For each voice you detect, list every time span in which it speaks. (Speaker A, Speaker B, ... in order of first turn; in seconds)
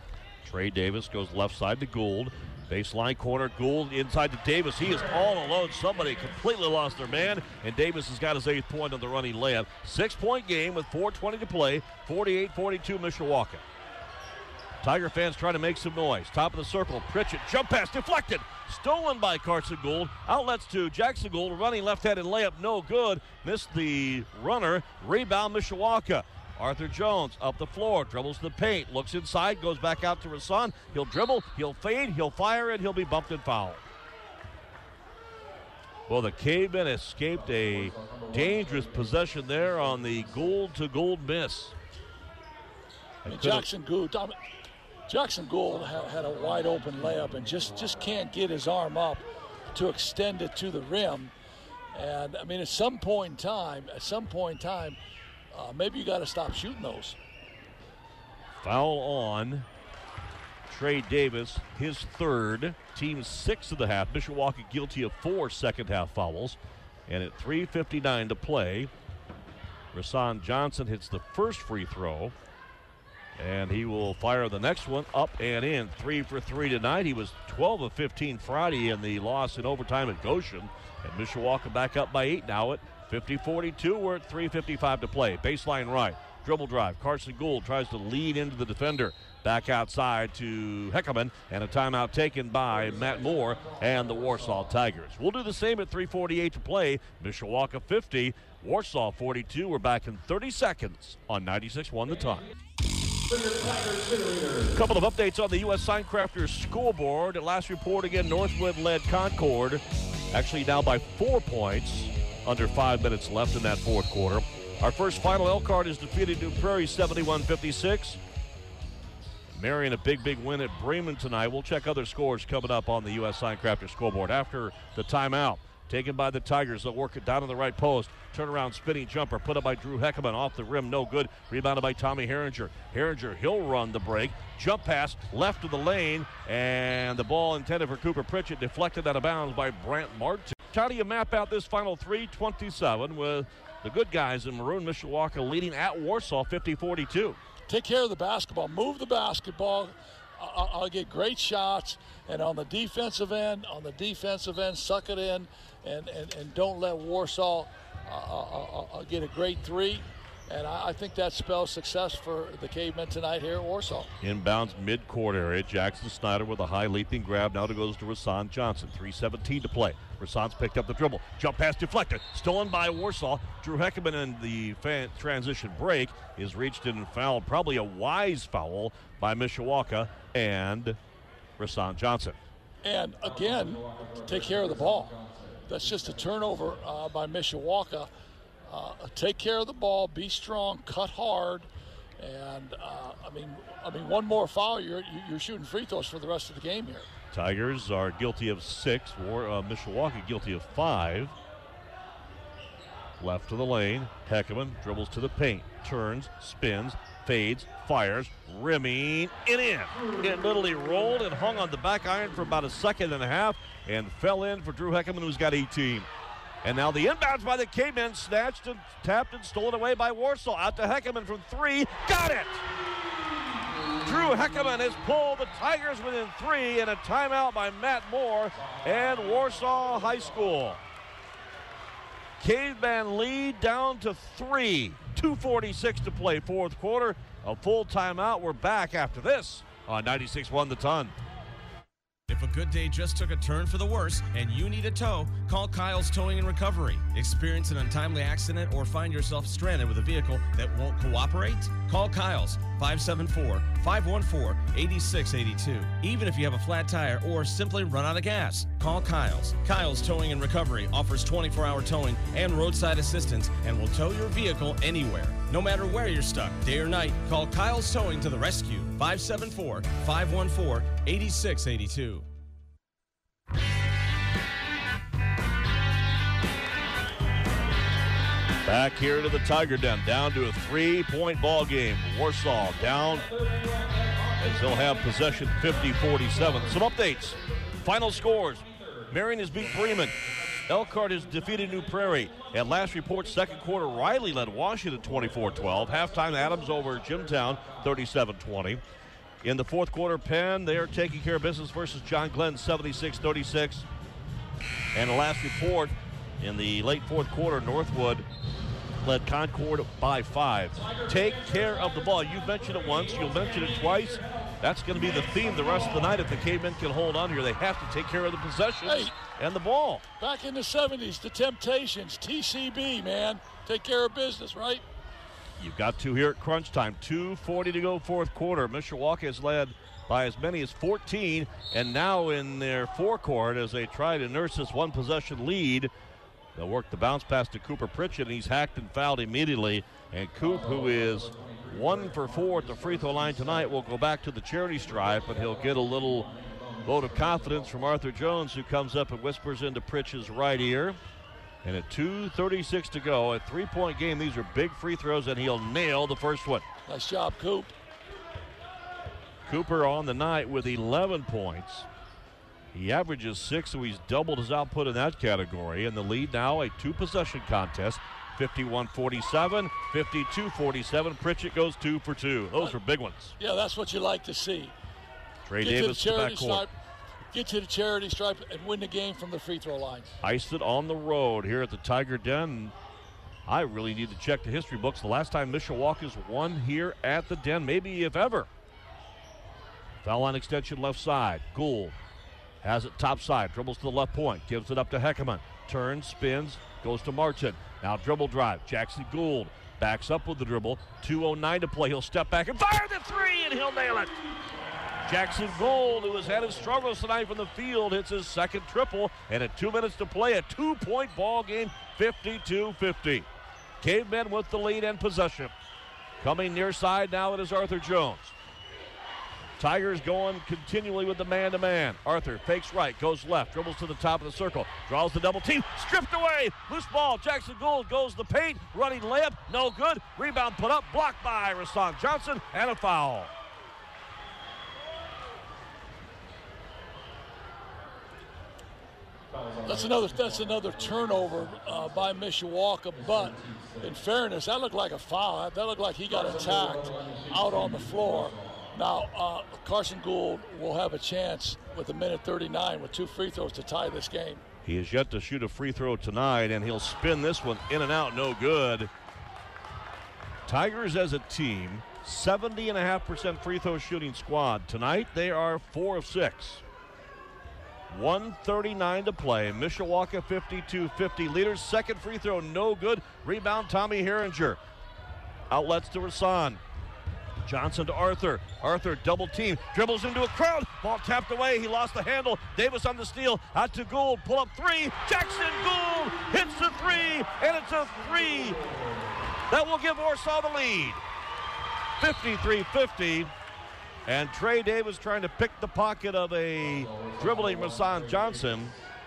Speaker A: 0.4-13.6, 14.8-33.8, 36.1-41.8, 43.2-43.7, 58.6-59.7, 60.7-68.9, 69.9-72.3, 73.4-102.5, 104.7-118.2, 119.5-147.4, 164.2-181.0, 181.6-182.4, 197.3-201.4, 203.2-216.1, 216.6-222.7, 224.0-230.8, 232.4-241.1, 278.6-283.3, 284.4-290.1, 290.7-298.8, 299.4-303.9, 304.9-308.3, 309.0-320.1, 325.6-335.9, 336.6-346.3, 346.9-351.0, 351.6-356.7, 359.5-361.9, 362.7-373.3, 375.4-376.7, 380.2-382.8, 383.5-388.5, 390.0-392.0, 392.6-404.2, 405.0-413.3, 413.8-415.5, 416.2-418.4, 419.6-433.3, 454.6-458.9, 460.5-466.6, 467.9-474.6, 475.5-476.6, 477.4-488.7, 489.5-491.0, 492.0-493.3, 494.1-498.8
Speaker B: 43.3-44.3, 45.1-51.3, 51.9-55.0, 55.5-57.2, 147.7-164.1, 182.8-185.1, 185.7-188.1, 188.7-191.7, 192.2-197.1, 318.9-319.1, 320.2-324.8, 356.9-357.7, 373.4-374.8, 375.6-376.7, 377.3-380.2, 439.6-454.4
Speaker C: 103.3-104.7, 185.2-185.5, 242.3-272.3